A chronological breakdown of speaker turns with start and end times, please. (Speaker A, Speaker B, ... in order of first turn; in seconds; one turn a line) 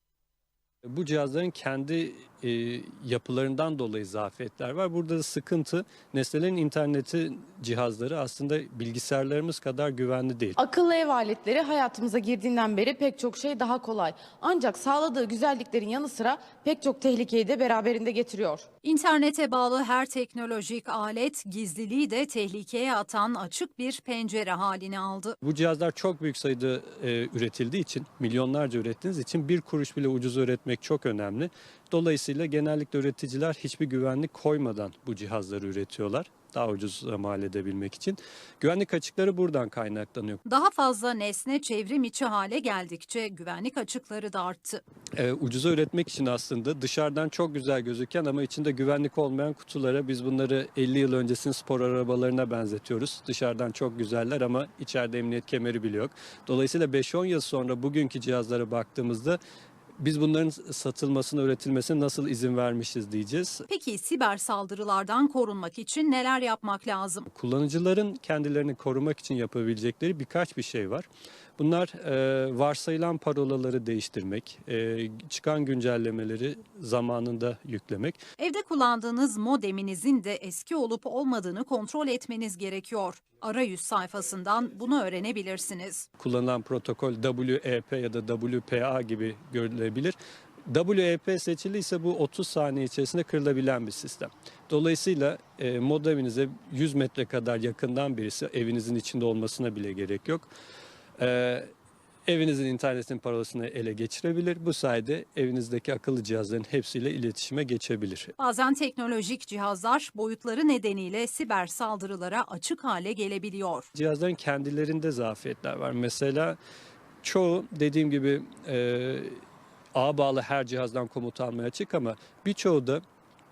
Speaker A: 0.9-10.6
Speaker B: 10.6-18.7
Speaker C: 18.8-25.4
Speaker A: 25.4-40.4
Speaker C: 40.5-44.8
Speaker A: 45.2-59.4
Speaker A: 60.0-63.6
Speaker C: 63.7-67.3
Speaker A: 67.3-71.1
Speaker A: 71.6-78.2
Speaker C: 78.4-86.1
Speaker A: 86.2-90.2
Speaker A: 90.7-100.5
Speaker A: 101.2-101.7
Speaker A: 102.3-108.3
Speaker C: 108.4-113.9
Speaker A: 114.0-116.6
Speaker A: 117.2-119.4
Speaker A: 120.0-123.0